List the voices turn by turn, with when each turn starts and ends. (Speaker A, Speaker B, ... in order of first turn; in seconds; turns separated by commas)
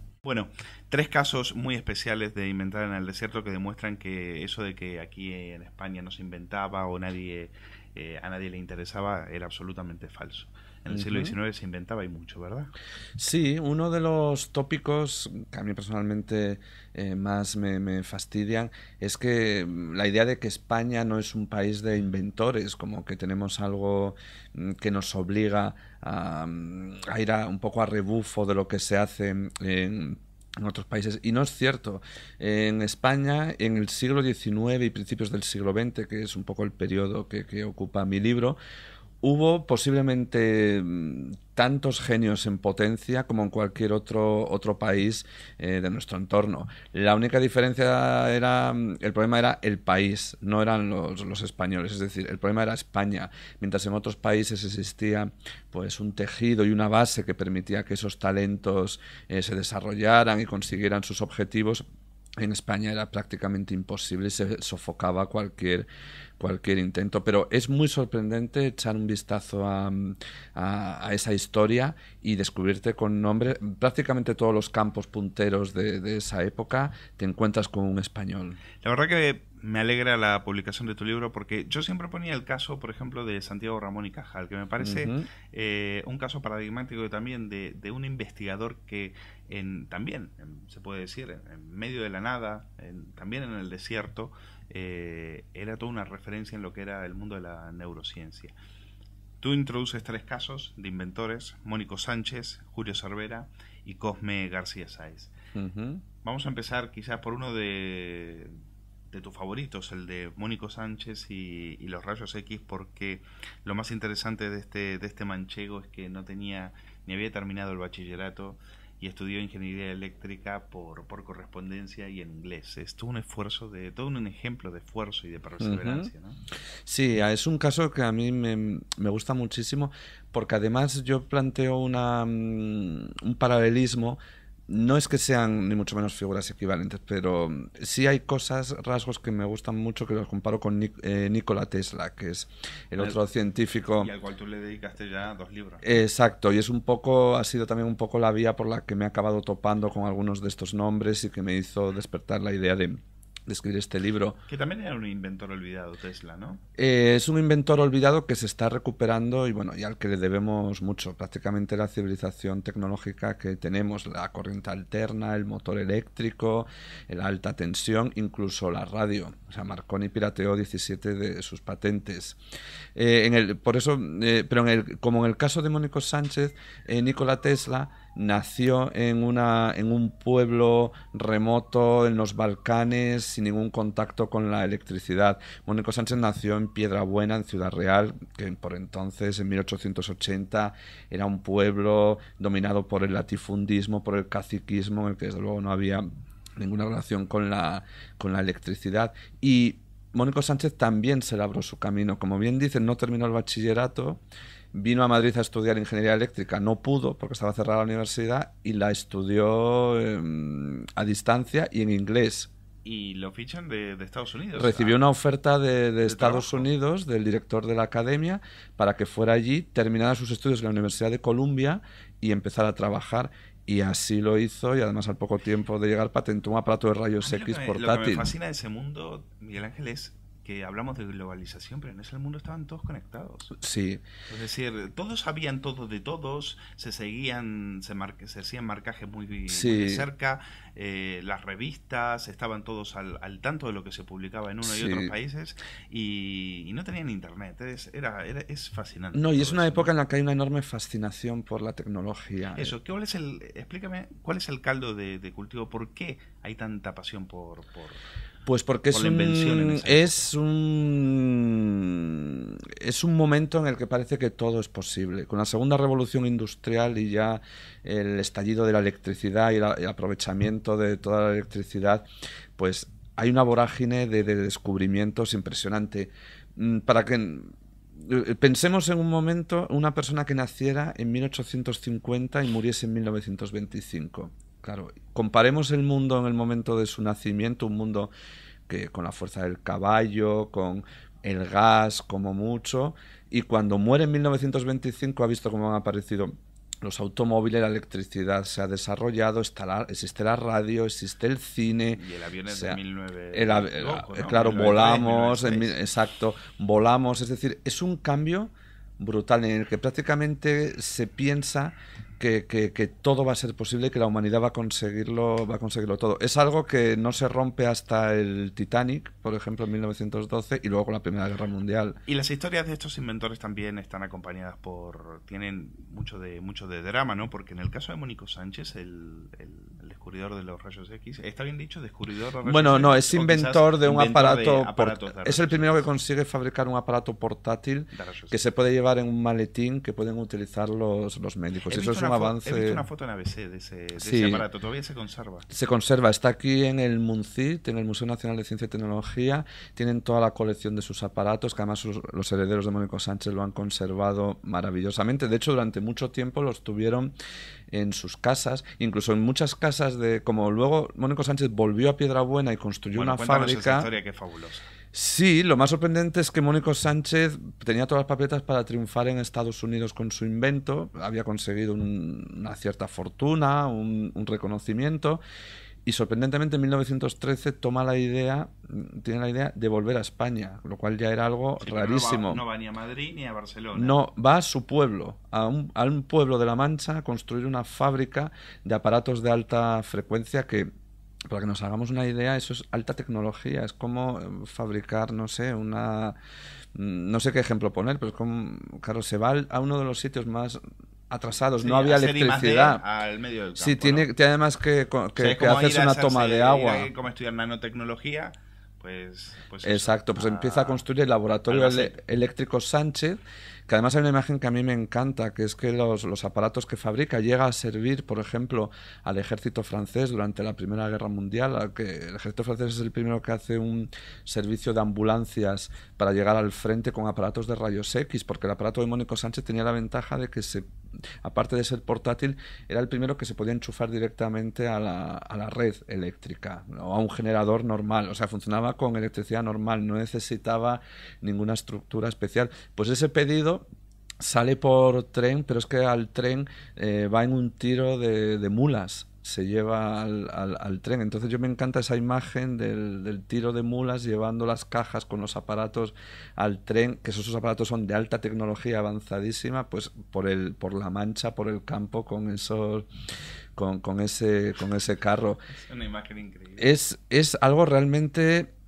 Speaker A: 0.2-12.7, Speaker B: 10.9-11.3, Speaker B: 13.2-38.6, Speaker B: 39.2-61.8, Speaker B: 62.4-65.8, Speaker B: 66.4-78.6, Speaker A: 78.8-98.5, Speaker B: 84.8-85.2, Speaker A: 99.4-105.3, Speaker B: 105.5-106.0, Speaker A: 106.2-108.6, Speaker A: 109.1-126.4, Speaker B: 125.6-126.1, Speaker B: 126.8-144.1, Speaker A: 143.9-145.9, Speaker B: 145.8-154.4, Speaker A: 154.5-156.6, Speaker B: 156.8-172.4, Speaker B: 172.9-196.0, Speaker B: 196.6-204.2, Speaker B: 204.7-212.5, Speaker A: 212.8-215.0, Speaker B: 214.6-228.3, Speaker A: 216.0-216.6, Speaker A: 227.2-233.5, Speaker B: 233.5-234.0, Speaker A: 234.3-249.9, Speaker B: 239.5-240.0, Speaker B: 244.6-245.1, Speaker B: 249.1-252.7, Speaker A: 252.6-258.0, Speaker B: 258.4-272.1, Speaker A: 258.9-260.2, Speaker B: 272.6-288.1, Speaker B: 288.7-302.8, Speaker A: 301.9-305.8, Speaker B: 303.3-322.0, Speaker A: 322.1-335.9, Speaker B: 332.4-342.8, Speaker A: 337.9-338.4, Speaker A: 341.6-345.5, Speaker B: 344.0-344.4, Speaker B: 345.5-357.1, Speaker B: 357.7-363.9, Speaker A: 362.9-364.7, Speaker B: 364.9-375.2, Speaker B: 375.8-382.4, Speaker A: 381.6-384.0, Speaker B: 383.7-390.7, Speaker B: 391.3-396.2, Speaker B: 396.7-402.8, Speaker A: 401.6-404.1, Speaker B: 403.6-406.9, Speaker A: 405.1-410.8, Speaker B: 409.6-430.6, Speaker A: 411.5-412.0, Speaker B: 431.2-443.6, Speaker B: 444.2-462.9, Speaker B: 463.5-465.4, Speaker A: 465.5-466.7, Speaker B: 466.6-468.5